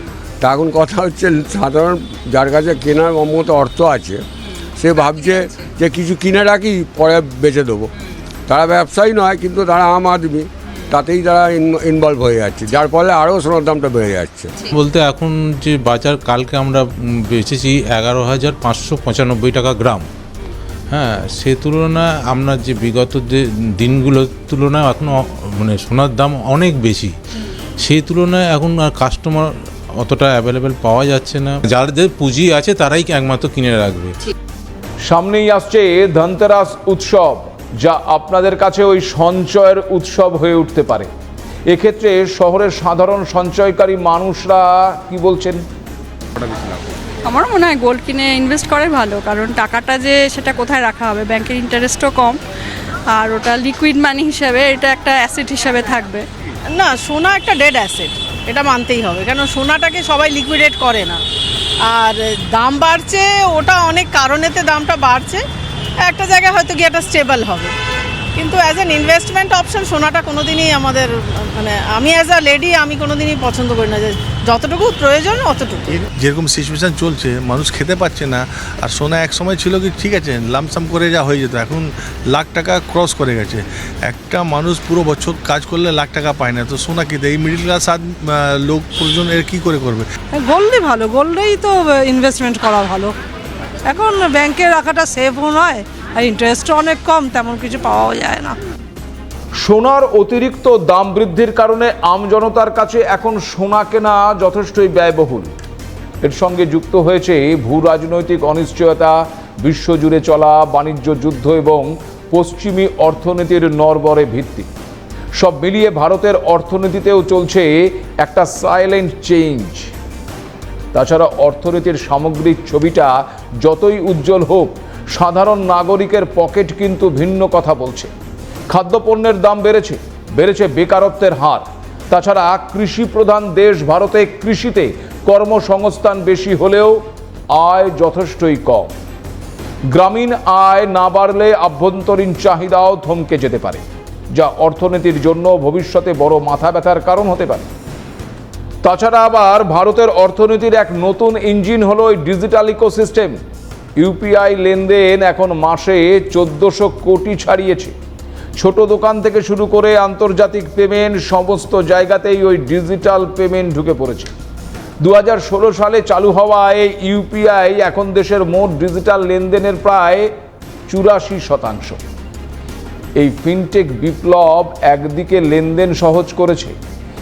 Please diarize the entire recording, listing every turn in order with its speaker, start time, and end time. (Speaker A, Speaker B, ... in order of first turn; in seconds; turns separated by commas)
Speaker A: 0.4-4.2, Speaker A: 4.8-7.9, Speaker A: 8.5-14.5, Speaker B: 14.6-20.1, Speaker B: 20.9-27.1, Speaker B: 27.8-34.2, Speaker C: 35.1-41.1, Speaker C: 41.7-45.6, Speaker D: 47.3-52.4, Speaker D: 53.1-56.2, Speaker E: 56.8-61.2, Speaker E: 61.9-65.4, Speaker E: 66.1-67.7, Speaker E: 68.4-75.8, Speaker F: 75.9-90.1, Speaker G: 90.3-93.2, Speaker G: 93.9-98.6, Speaker C: 99.6-105.5, Speaker C: 106.2-114.7, Speaker C: 115.4-119.9, Speaker C: 120.9-128.1, Speaker C: 128.7-137.0, Speaker C: 137.6-138.9, Speaker C: 139.9-143.8, Speaker C: 144.3-147.7, Speaker C: 148.8-153.4, Speaker C: 154.0-157.9, Speaker C: 158.6-164.3, Speaker C: 165.0-170.3, Speaker C: 170.9-172.0, Speaker C: 173.2-176.8